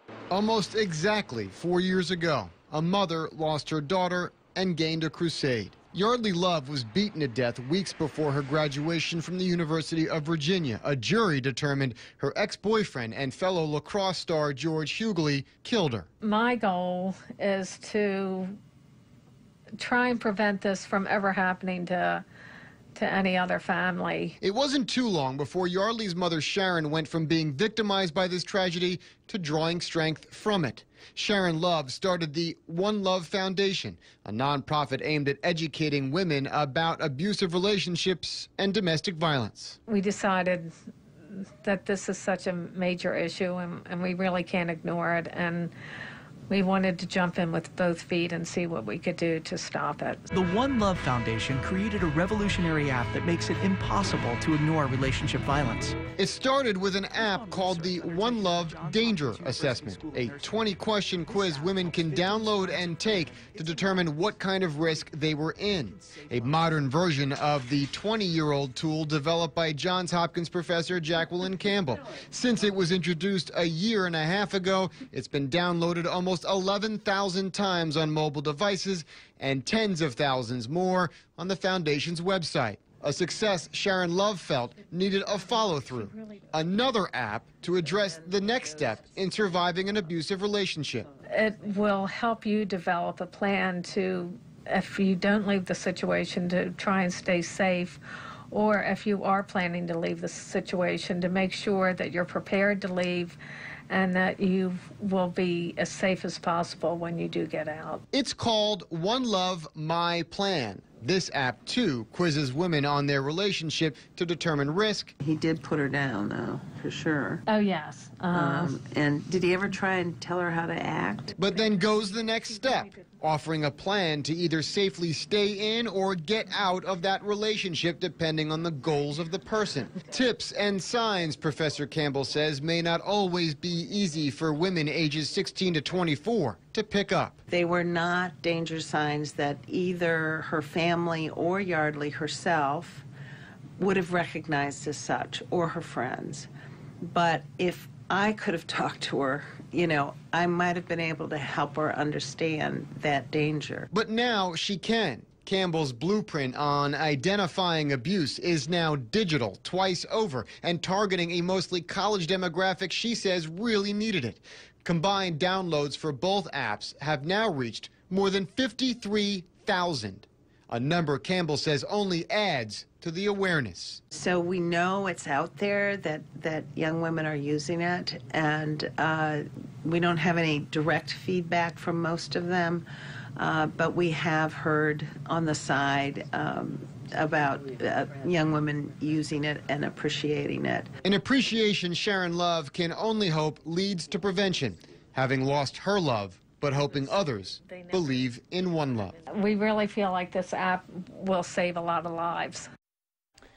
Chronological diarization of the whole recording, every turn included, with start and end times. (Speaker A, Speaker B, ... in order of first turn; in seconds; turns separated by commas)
Speaker A: 0.3-16.1, Speaker B: 16.2-18.6, Speaker B: 19.8-22.2, Speaker B: 22.9-24.4, Speaker A: 24.4-39.8, Speaker B: 39.9-40.7, Speaker B: 41.3-45.7, Speaker B: 46.5-50.2, Speaker C: 50.3-56.0, Speaker A: 56.2-91.1, Speaker C: 57.1-64.3, Speaker C: 65.9-66.8, Speaker B: 85.1-86.6, Speaker D: 87.8-89.9, Speaker D: 91.1-92.0, Speaker B: 91.3-103.4, Speaker B: 103.9-108.0, Speaker A: 108.1-115.1, Speaker D: 115.2-117.4, Speaker B: 117.5-118.8, Speaker D: 118.3-121.3, Speaker A: 121.4-137.4, Speaker B: 121.5-123.0, Speaker D: 137.5-143.1, Speaker D: 143.8-146.5, Speaker D: 147.0-153.9, Speaker A: 153.9-174.0, Speaker D: 174.1-182.8, Speaker D: 183.4-190.9, Speaker A: 191.0-199.2, Speaker B: 197.2-198.3, Speaker B: 199.2-202.7